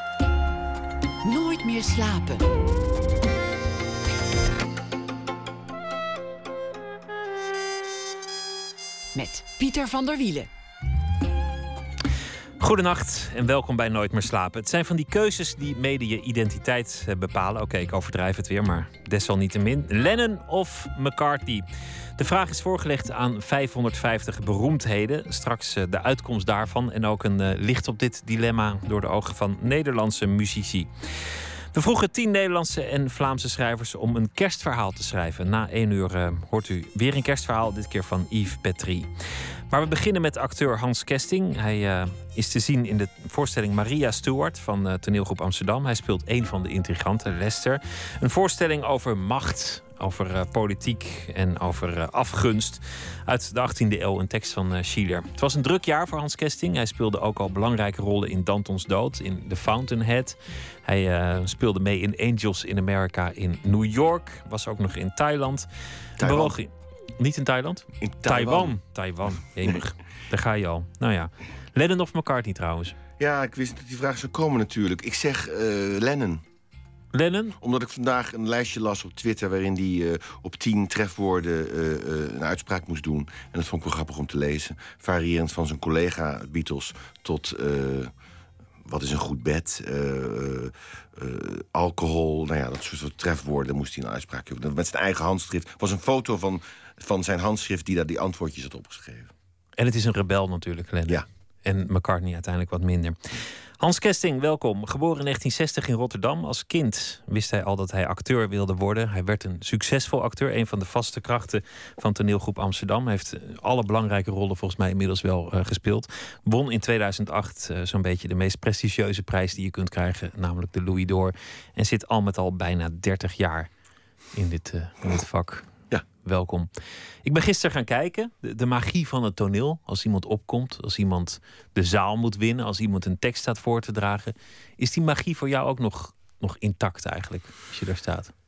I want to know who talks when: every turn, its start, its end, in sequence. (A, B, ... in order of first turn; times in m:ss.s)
0:01.2-0:02.5 A
0:09.2-0:10.5 A
0:12.6-0:21.6 B
0:22.2-0:39.1 B
0:39.7-1:05.7 B
1:06.2-1:06.6 C
1:06.2-1:13.0 B
1:08.0-1:08.8 C
1:13.2-1:16.4 C
1:17.1-1:17.6 B
1:17.6-1:28.1 C
1:28.8-1:39.3 C
1:39.8-2:03.7 B
2:04.3-2:05.7 B
2:06.2-2:06.7 B
2:07.2-2:18.3 B